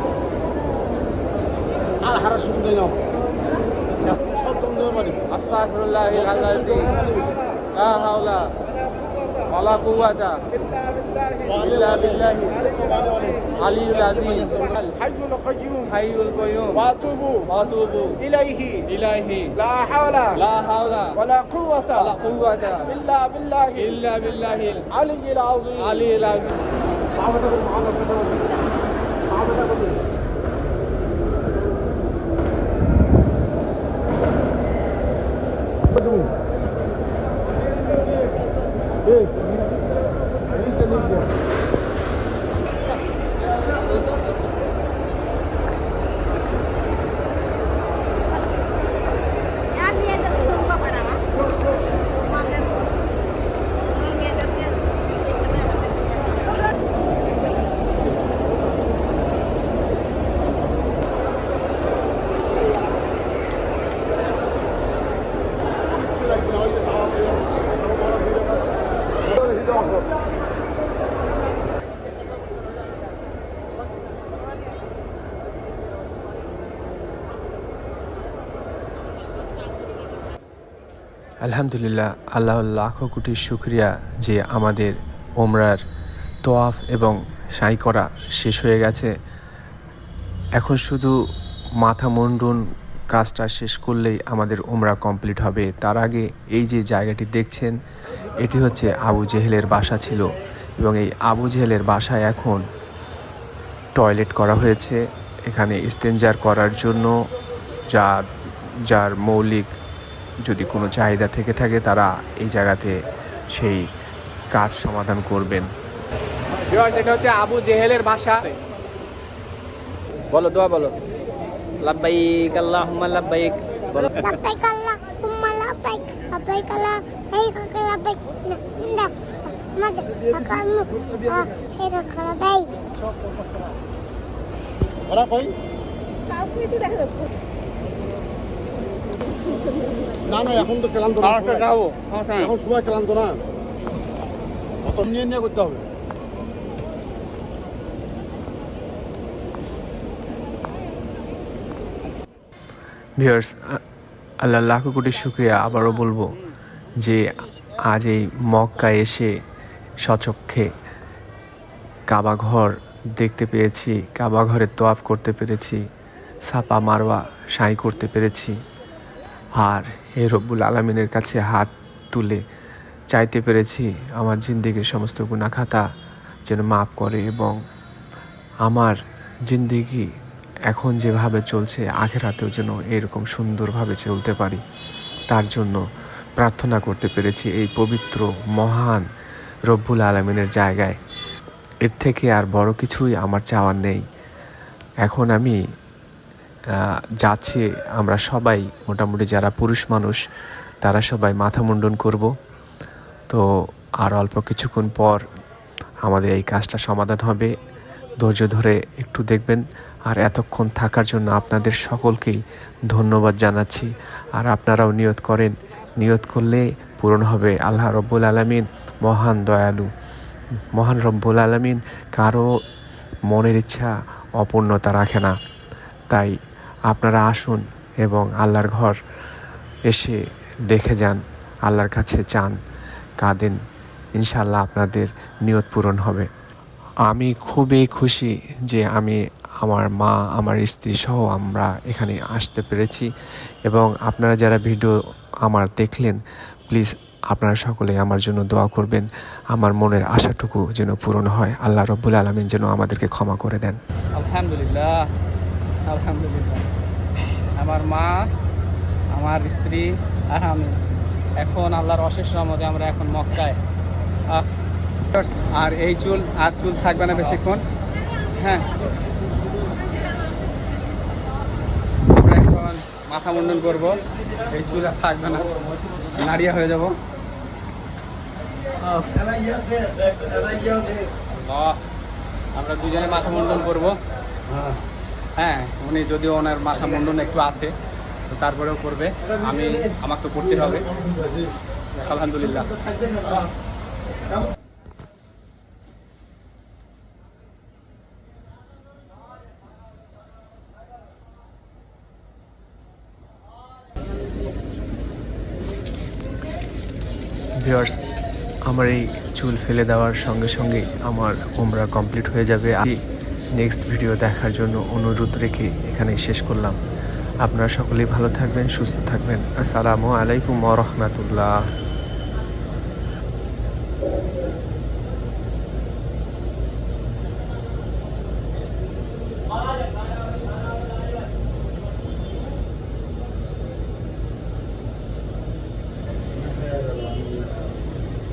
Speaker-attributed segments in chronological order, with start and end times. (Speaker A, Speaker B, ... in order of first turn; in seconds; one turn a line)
Speaker A: 2.0-3.0
Speaker A: 4.1-5.2
Speaker B: 5.3-7.0
Speaker A: 6.9-7.2
Speaker B: 7.7-8.5
Speaker B: 9.4-10.5
Speaker B: 11.4-14.9
Speaker A: 11.5-12.1
Speaker A: 12.7-13.4
Speaker A: 14.3-14.6
Speaker B: 15.6-19.6
Speaker B: 20.2-21.2
Speaker B: 21.8-26.6
Speaker A: 27.2-28.1
Speaker A: 29.4-29.9
Speaker C: 81.4-85.8
Speaker C: 86.4-89.1
Speaker C: 90.6-91.1
Speaker C: 91.8-92.6
Speaker C: 93.1-97.8
Speaker C: 98.4-100.2
Speaker C: 100.8-102.6
Speaker C: 103.9-107.2
Speaker C: 107.9-108.2
Speaker C: 108.9-109.7
Speaker C: 110.4-112.9
Speaker C: 113.5-113.8
Speaker C: 114.5-115.7
Speaker B: 116.6-118.6
Speaker B: 120.3-120.9
Speaker B: 121.8-124.1
Speaker D: 124.2-132.8
Speaker A: 135.1-135.5
Speaker A: 140.3-141.6
Speaker B: 141.2-142.5
Speaker A: 142.5-143.4
Speaker A: 144.8-145.9
Speaker C: 153.2-153.8
Speaker C: 154.4-156.3
Speaker C: 157.0-157.3
Speaker C: 157.8-159.3
Speaker C: 160.0-160.7
Speaker C: 162.1-165.8
Speaker C: 166.4-168.6
Speaker C: 169.6-172.4
Speaker C: 173.1-175.8
Speaker C: 176.4-177.6
Speaker C: 178.6-178.9
Speaker C: 179.5-180.1
Speaker C: 180.7-184.6
Speaker C: 185.3-185.8
Speaker C: 186.4-189.0
Speaker C: 189.7-190.9
Speaker C: 191.8-194.0
Speaker C: 195.0-195.6
Speaker C: 196.7-200.2
Speaker C: 200.8-202.3
Speaker C: 204.0-205.2
Speaker C: 206.0-207.5
Speaker C: 208.2-212.4
Speaker C: 212.9-219.9
Speaker C: 220.7-222.5
Speaker C: 223.3-225.3
Speaker C: 226.9-228.9
Speaker C: 229.9-230.2
Speaker C: 230.7-232.6
Speaker C: 233.2-233.6
Speaker C: 234.2-236.3
Speaker C: 237.1-243.1
Speaker C: 243.7-253.8
Speaker B: 254.2-255.0
Speaker B: 255.8-256.7
Speaker B: 257.6-258.2
Speaker B: 259.1-260.8
Speaker B: 261.4-263.6
Speaker B: 265.1-267.6
Speaker B: 268.3-268.8
Speaker B: 272.1-275.5
Speaker B: 276.1-277.0
Speaker B: 281.2-281.8
Speaker B: 282.5-284.0
Speaker B: 285.4-287.7
Speaker B: 288.3-291.0
Speaker B: 291.9-292.8
Speaker C: 307.6-308.0
Speaker C: 308.7-313.0
Speaker C: 313.6-316.8
Speaker C: 317.4-321.5
Speaker A: 336.4-337.4